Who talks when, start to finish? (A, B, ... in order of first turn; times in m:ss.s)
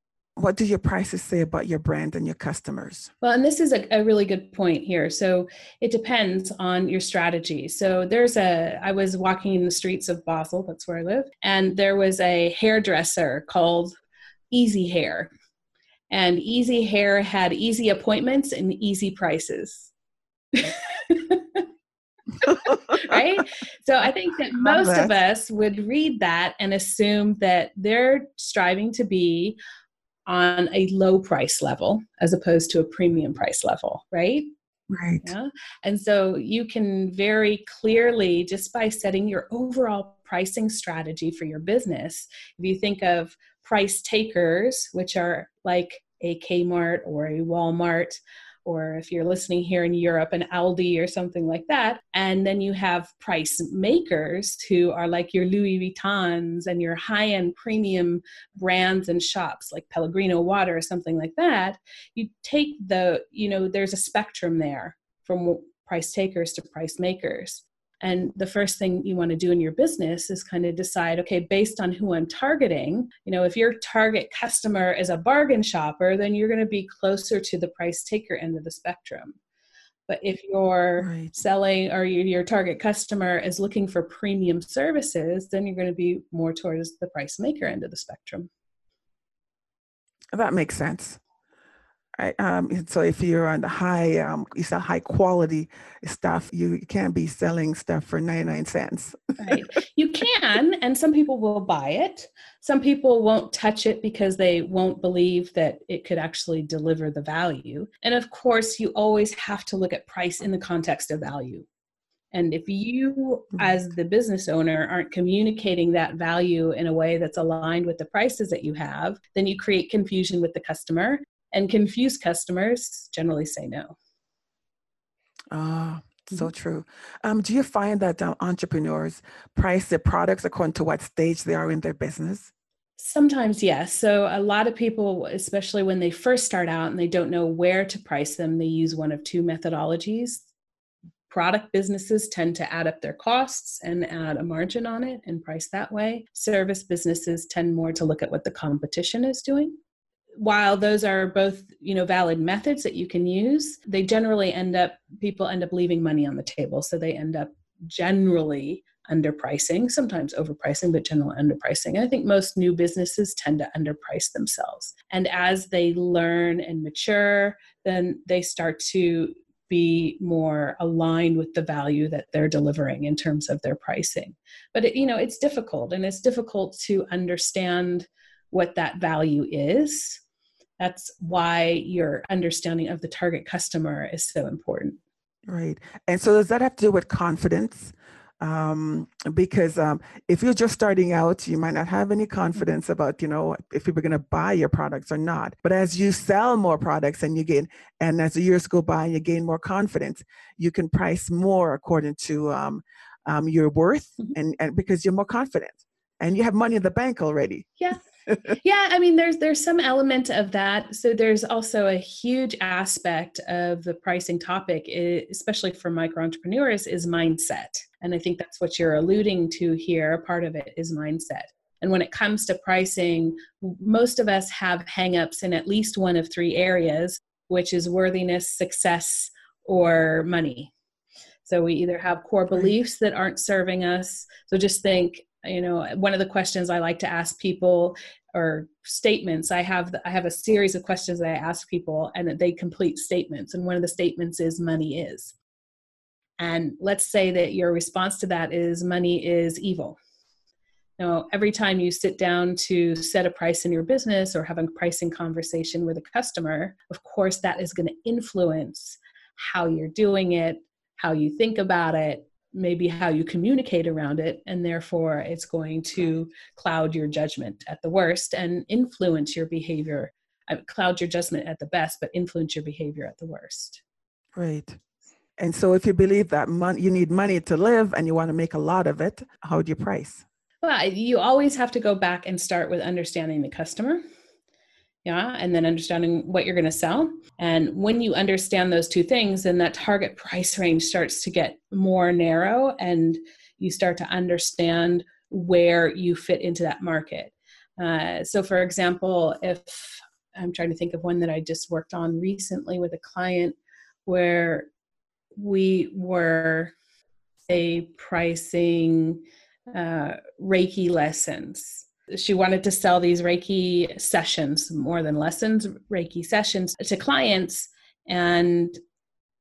0:00.4-0:03.1 A
0:03.2-0:14.0 B
0:14.5-0:15.3 B
0:16.1-0:19.9 B
0:20.5-0:21.7 B
0:22.4-0:23.2 A
0:22.5-0:29.6 B
0:24.0-0:25.2 A
0:30.3-0:34.5 B
0:34.9-0:35.3 A
0:35.2-1:19.4 B
1:20.1-1:28.5 B
1:21.0-1:21.4 A
1:30.3-1:31.2 A
1:32.2-1:39.5 A
1:39.4-1:51.7 B
1:52.3-2:04.0 B
2:05.5-2:12.5 A
2:13.0-2:20.5 B
2:21.3-2:29.8 B
2:30.4-3:00.2 B
3:00.8-3:05.0 B
3:05.5-3:27.7 A
3:27.8-3:28.0 B
3:28.3-3:28.6 A
3:28.6-3:50.7 B
3:51.4-4:05.4 B
4:06.4-4:10.0 B
4:11.0-4:33.8 B
4:34.4-4:34.8 A
4:35.4-4:40.2 A
4:40.6-4:44.0 B
4:45.0-5:04.7 B
5:05.4-5:06.7 B
5:07.5-5:18.8 B